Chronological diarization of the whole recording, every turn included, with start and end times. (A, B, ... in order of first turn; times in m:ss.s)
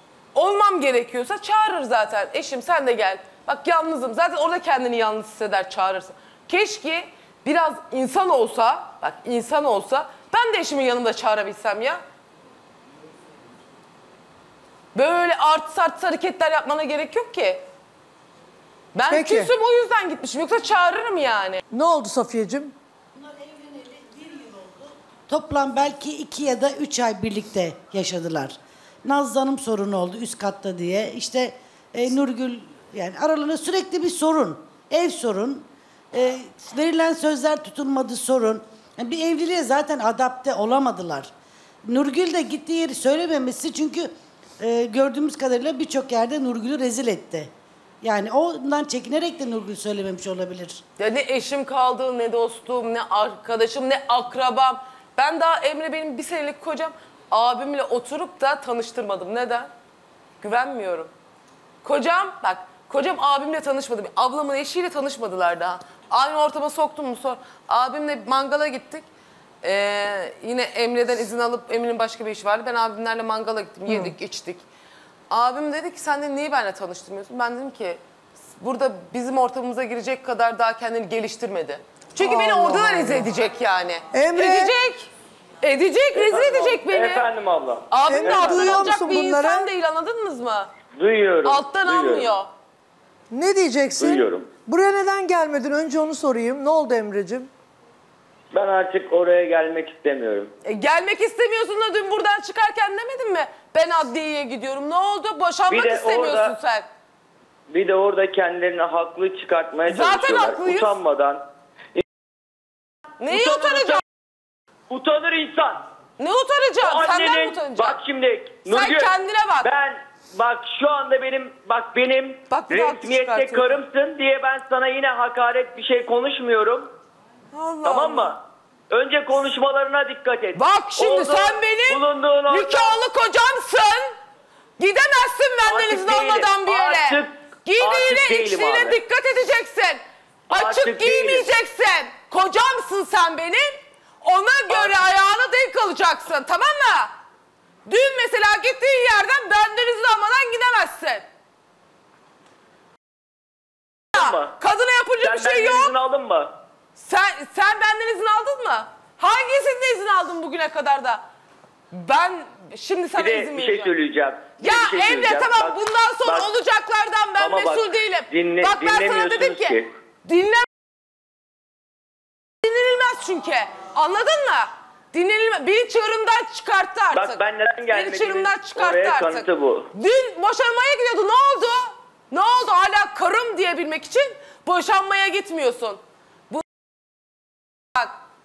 0:00.3-0:12.0 A
0:14.9-0:17.6 A
0:18.9-0:21.6 A
0:19.1-0:19.5 B
0:21.7-0:22.7 B
0:23.2-0:41.3 C
0:41.8-0:47.5 C
0:48.0-0:50.8 C
0:51.0-0:59.7 A
1:00.4-1:01.1 A
1:01.8-1:09.0 A
1:09.6-1:14.6 A
1:13.9-1:14.1 B
1:15.3-1:18.0 A
1:18.6-1:25.1 A
1:22.2-1:23.3 B
1:24.1-1:24.7 B
1:25.6-1:27.3 A
1:26.1-1:28.9 D
1:27.9-1:30.7 A
1:28.1-1:29.7 B
1:30.9-1:32.3 D
1:31.4-1:32.5 A
1:33.3-1:37.5 B
1:34.0-1:34.5 D
1:38.5-1:40.5 D
1:40.6-1:46.9 A
1:45.7-1:46.6 D
1:47.7-1:52.0 D
1:49.9-1:51.0 A
1:53.2-1:54.0 A
1:53.3-1:54.0 D
1:54.9-1:55.8 D
1:56.2-1:58.0 A
1:56.8-2:06.9 D
1:58.7-1:59.7 A
2:02.5-2:03.8 A
2:07.5-2:08.4 A
2:07.8-2:08.4 D
2:08.9-2:13.0 D
2:10.5-2:14.1 A
2:14.8-2:27.1 A
2:15.6-2:19.0 D
2:20.5-2:21.5 D
2:24.7-2:25.0 D
2:27.8-2:31.2 A
2:34.1-2:34.5 D
2:34.1-2:35.9 A
2:35.2-2:36.5 D
2:37.0-2:41.2 A
2:41.9-2:43.9 A
2:43.2-2:46.5 D
2:44.6-2:50.7 A
2:47.4-2:49.9 D
2:52.6-3:06.6 A
2:57.1-2:59.9 D